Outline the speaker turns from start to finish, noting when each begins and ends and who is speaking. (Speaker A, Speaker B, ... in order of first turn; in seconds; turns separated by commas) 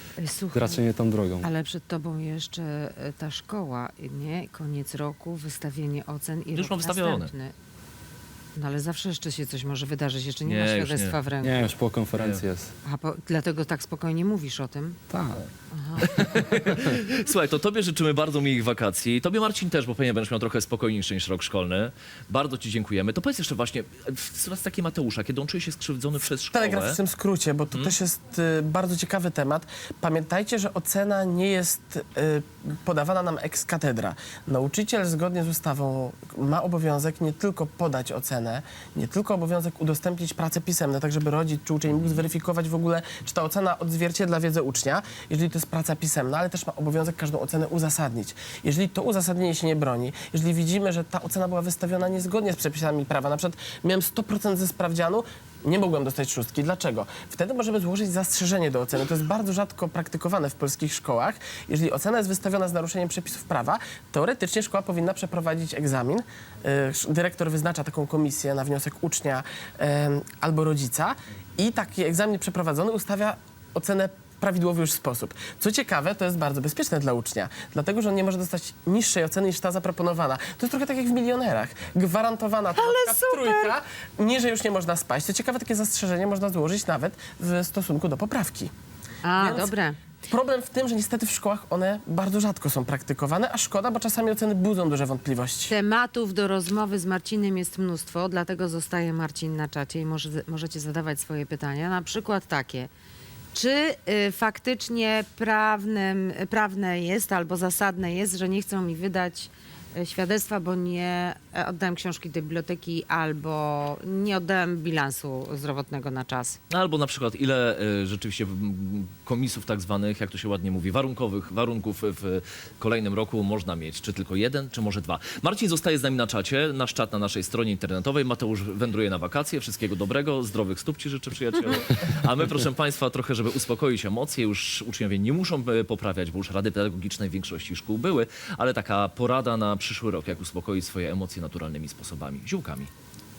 Speaker A: 0.2-0.8, Speaker B: 0.5-1.5, Speaker A: 1.4-7.5, Speaker C: 6.5-7.3, Speaker A: 8.6-11.6, Speaker C: 10.4-11.2, Speaker B: 11.4-12.7, Speaker C: 12.2-12.4, Speaker A: 12.8-15.0, Speaker B: 15.1-15.4, Speaker A: 15.7-16.2, Speaker C: 16.1-27.0, Speaker D: 26.5-88.7, Speaker A: 82.8-83.7, Speaker A: 89.2-90.0, Speaker D: 89.4-89.7, Speaker D: 90.2-95.7, Speaker A: 95.7-102.9, Speaker A: 103.5-116.6, Speaker C: 116.7-142.9